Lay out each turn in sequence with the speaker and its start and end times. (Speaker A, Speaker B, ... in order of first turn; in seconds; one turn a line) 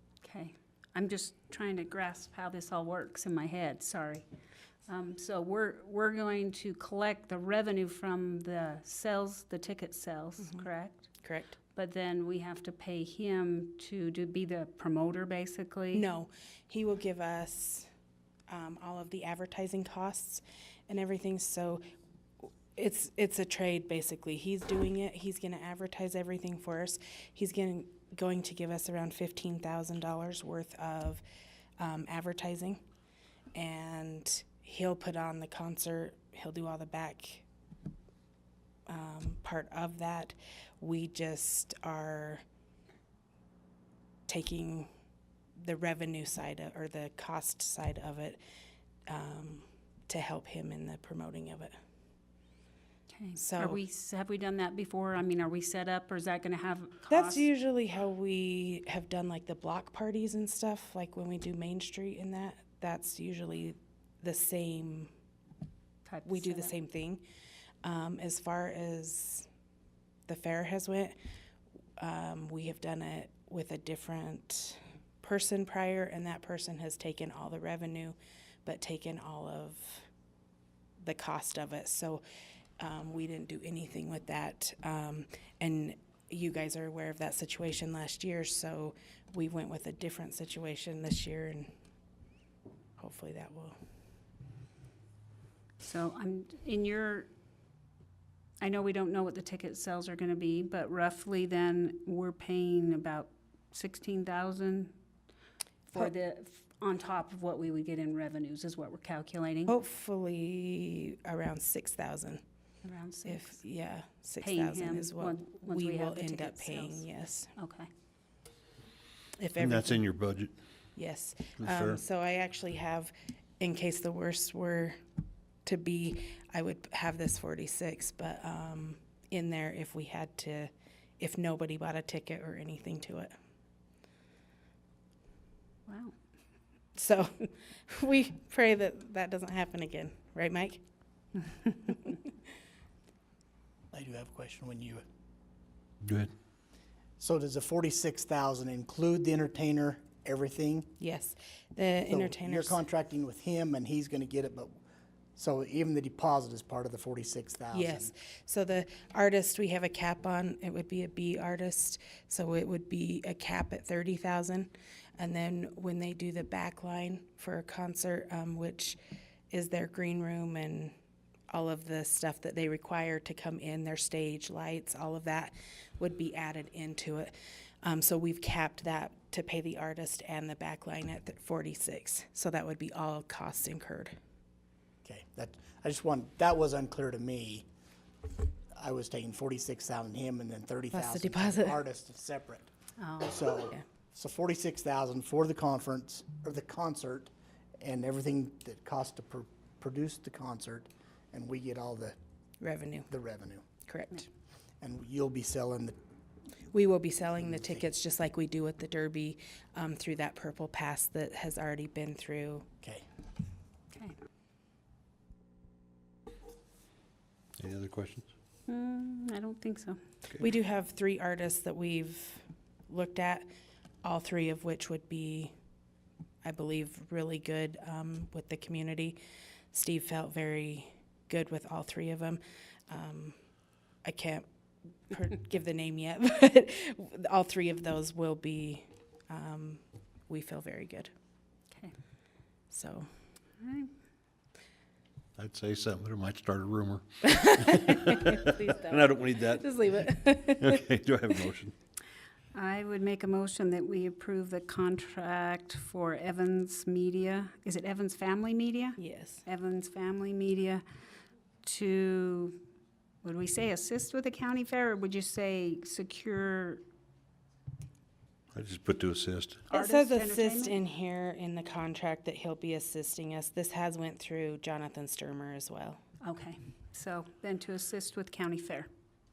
Speaker A: 0.2-4.2
Speaker A: 4.9-11.1
Speaker B: 10.4-10.7
Speaker B: 11.2-11.6
Speaker A: 11.7-16.0
Speaker B: 15.9-17.9
Speaker B: 18.5-21.8
Speaker B: 22.8-31.2
Speaker B: 31.8-32.8
Speaker B: 33.5-37.4
Speaker B: 38.9-42.4
Speaker B: 44.3-44.9
Speaker B: 45.6-48.4
Speaker B: 49.1-51.7
Speaker A: 53.1-57.5
Speaker B: 53.4-53.8
Speaker B: 57.1-65.1
Speaker A: 66.0-66.7
Speaker B: 66.2-67.2
Speaker B: 67.8-69.5
Speaker B: 70.3-71.1
Speaker B: 72.0-80.1
Speaker B: 81.0-82.2
Speaker B: 82.8-91.7
Speaker B: 93.0-93.8
Speaker A: 95.8-97.3
Speaker A: 98.6-104.9
Speaker A: 105.9-109.7
Speaker B: 109.7-112.4
Speaker A: 112.8-113.6
Speaker B: 113.2-117.5
Speaker A: 114.4-117.9
Speaker B: 119.4-120.0
Speaker C: 119.6-120.5
Speaker B: 121.0-125.0
Speaker C: 121.6-122.0
Speaker B: 125.6-133.3
Speaker A: 135.9-136.1
Speaker B: 136.9-140.8
Speaker B: 141.8-142.2
Speaker D: 143.9-145.0
Speaker C: 146.0-146.3
Speaker D: 147.2-150.9
Speaker B: 151.0-152.8
Speaker D: 152.1-154.7
Speaker D: 155.3-158.1
Speaker B: 157.7-169.0
Speaker B: 169.5-170.9
Speaker B: 171.5-177.3
Speaker B: 177.8-184.2
Speaker D: 185.0-187.7
Speaker D: 188.7-192.7
Speaker B: 190.9-191.8
Speaker A: 193.0-193.5
Speaker D: 193.2-202.1
Speaker B: 202.6-203.1
Speaker D: 203.1-203.7
Speaker B: 203.8-204.3
Speaker D: 204.8-205.9
Speaker B: 206.7-212.7
Speaker D: 207.4-207.8
Speaker C: 217.6-218.3
Speaker A: 218.7-220.0
Speaker B: 220.4-223.5
Speaker B: 224.0-225.5
Speaker B: 226.4-229.2
Speaker B: 229.7-233.3
Speaker B: 234.0-234.4
Speaker B: 235.1-241.1
Speaker B: 242.7-243.1
Speaker A: 243.6-243.9
Speaker C: 245.4-249.7
Speaker B: 247.2-250.8
Speaker C: 250.6-251.7
Speaker A: 252.5-260.8
Speaker B: 259.0-259.4
Speaker A: 261.6-262.6
Speaker A: 263.2-266.8
Speaker C: 268.5-269.6
Speaker A: 269.7-270.8
Speaker B: 269.7-276.0
Speaker A: 276.2-278.9